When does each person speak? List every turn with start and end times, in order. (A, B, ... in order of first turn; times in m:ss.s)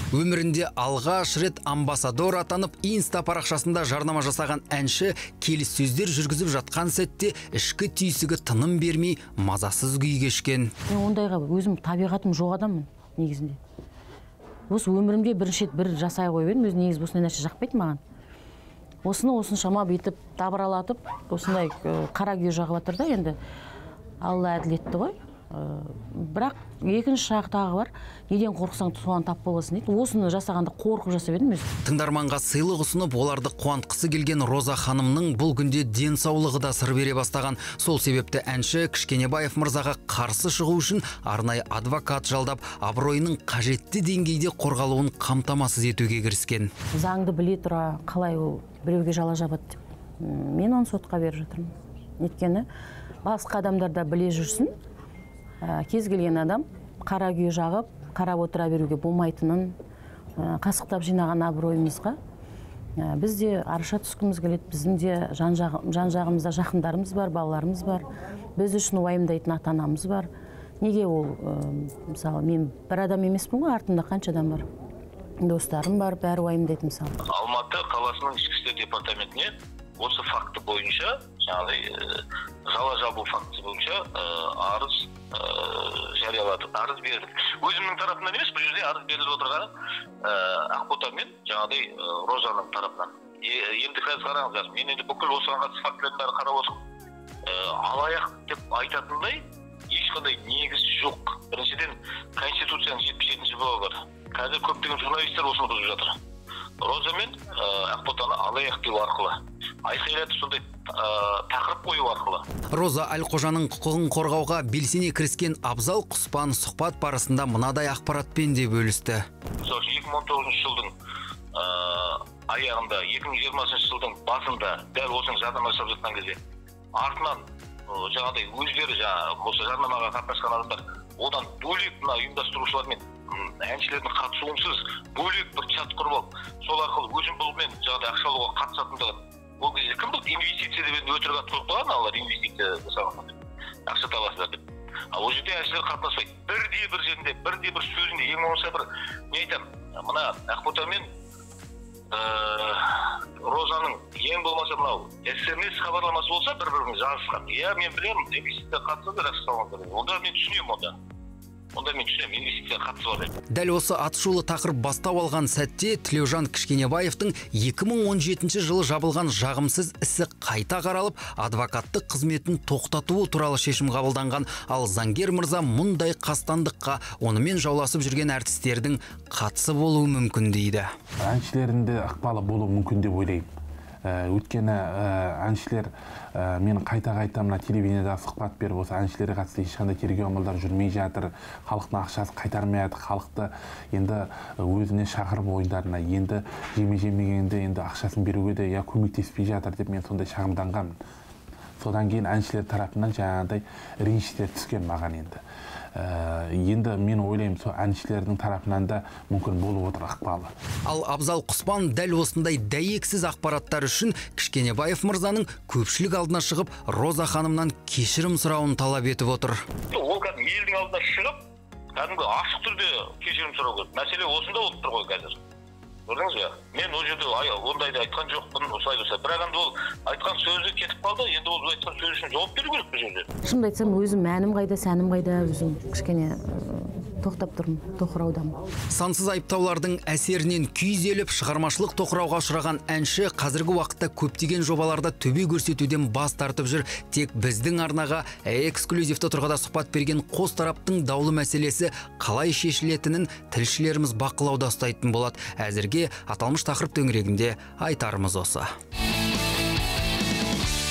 0:00.1-0:10.7 A
0:10.9-0:13.6 B
0:14.7-0:18.0 B
0:19.0-0:23.4 B
0:24.2-0:31.7 B
0:31.8-0:46.7 A
0:46.9-0:52.6 B
0:53.2-0:54.7 B
0:55.6-0:59.7 B
1:00.4-1:02.2 B
1:03.0-1:10.3 B
1:10.8-1:14.6 B
1:15.4-1:17.1 B
1:17.3-1:29.7 C
1:30.2-1:36.8 C
1:37.4-1:46.2 C
1:46.8-1:52.4 C
1:52.7-1:59.2 A
1:59.6-2:00.9 C
2:01.5-2:06.4 C
2:06.9-2:24.6 C
2:25.1-2:31.1 C
2:32.1-2:40.9 C
2:41.7-2:43.3 C
2:43.5-3:00.9 A
3:01.2-3:03.5 D
3:04.0-3:20.9 D
3:21.8-3:25.4 D
3:25.9-3:30.5 D
3:30.8-3:39.6 A
3:39.9-3:41.4 C
3:41.9-3:45.4 C
3:46.1-3:53.3 C
3:53.4-3:58.6 B
3:58.9-4:18.7 A